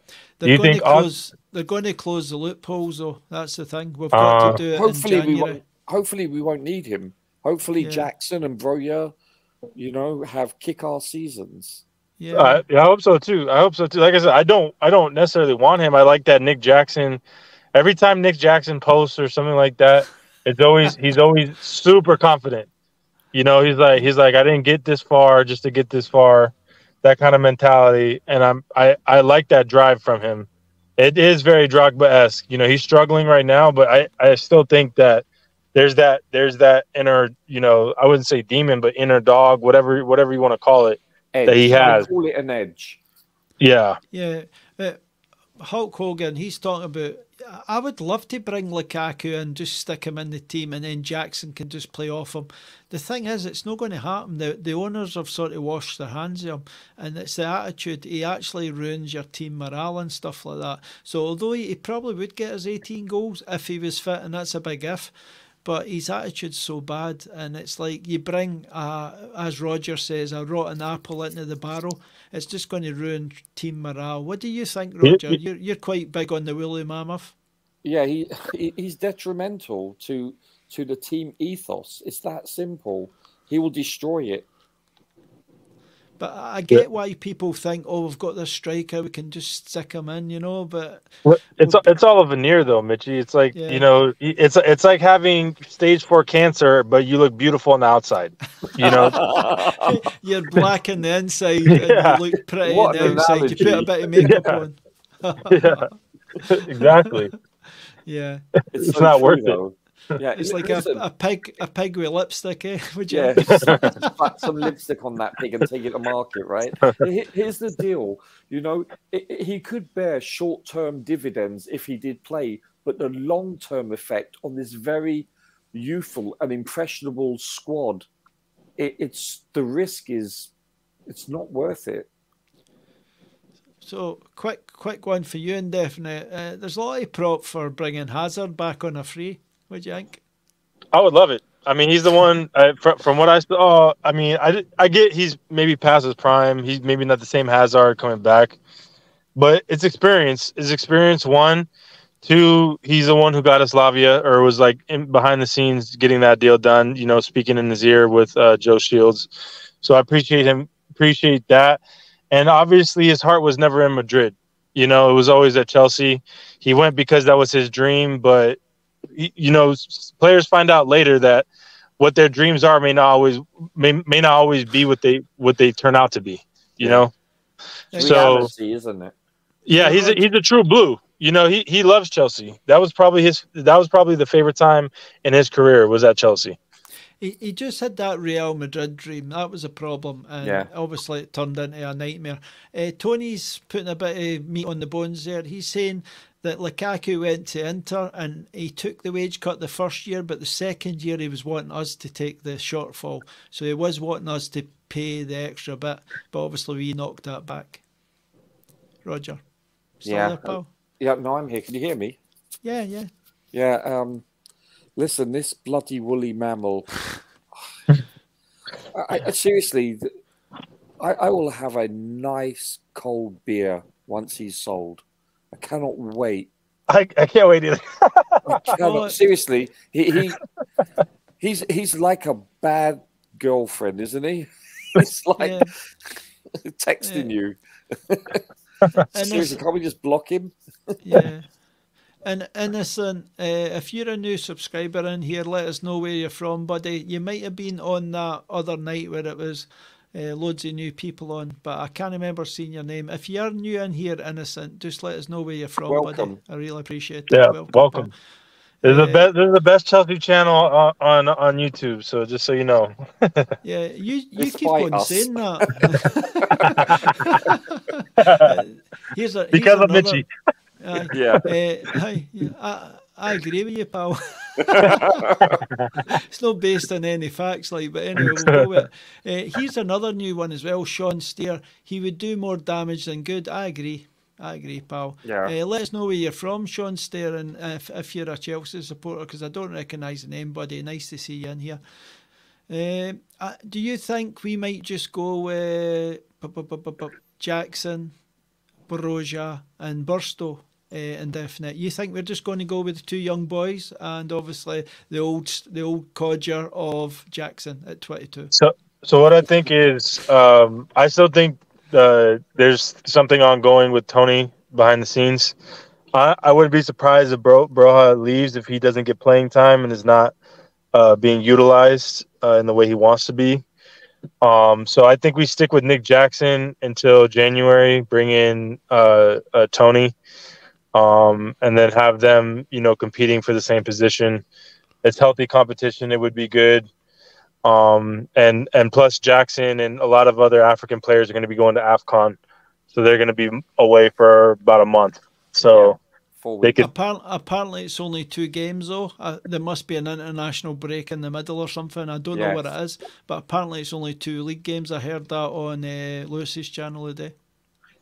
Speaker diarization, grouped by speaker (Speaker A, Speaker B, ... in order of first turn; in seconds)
Speaker A: 0.4-5.6, 7.8-8.1, 12.2-12.6, 44.1-45.0, 45.6-65.1, 65.6-77.3, 86.2-91.8, 93.5-93.9, 99.8-105.9, 106.4-107.2, 108.0-108.4, 110.3-114.1, 133.8-140.2, 177.9-178.4, 179.7-180.2, 187.2-207.8, 209.0-209.4, 210.0-210.7, 212.6-213.1, 228.8-229.2, 235.4-235.7, 237.0-237.3, 239.0-239.6, 241.0-241.5, 242.2-258.1, 258.8-259.3, 263.6-270.2, 270.8-275.2, 276.2-291.8, 292.7-298.1, 298.9-308.5, 346.8-357.3
Speaker B: 0.4-1.1, 4.1-4.6, 12.3-17.2, 17.7-22.7, 23.3-42.1, 43.6-44.0, 91.2-99.3, 101.7-102.2, 104.2-104.6, 105.5-105.9, 106.5-107.3, 108.8-109.6, 140.9-148.6, 149.3-151.7, 152.2-159.3, 159.8-168.6, 169.1-171.4, 172.0-177.1, 178.0-178.5, 179.7-186.6, 226.9-228.6, 257.3-258.1, 258.8-263.5, 266.6-267.4, 268.2-268.6, 269.5-270.3, 275.4-276.0, 278.2-278.6, 308.5-315.6, 316.1-320.3, 320.9-323.6, 324.4-330.1, 330.9-334.4, 335.0-336.9, 337.6-342.4, 342.9-346.0, 346.6-346.9
Speaker C: 4.7-9.1, 9.7-11.8, 41.3-43.0, 77.8-84.5, 98.8-99.9, 102.6-103.9, 108.7-111.0, 113.1-128.1, 128.8-130.5, 131.1-132.1, 176.8-177.0, 177.9-179.1, 190.4-190.7, 210.0-212.2, 213.5-214.2, 215.0-216.9, 218.9-220.1, 221.0-225.0, 225.5-226.5, 228.5-230.4, 231.4-238.4, 239.1-240.5, 255.9-256.4, 264.4-265.8, 271.1-271.5, 274.6-275.4, 285.2-285.5, 345.7-346.8, 352.3-352.7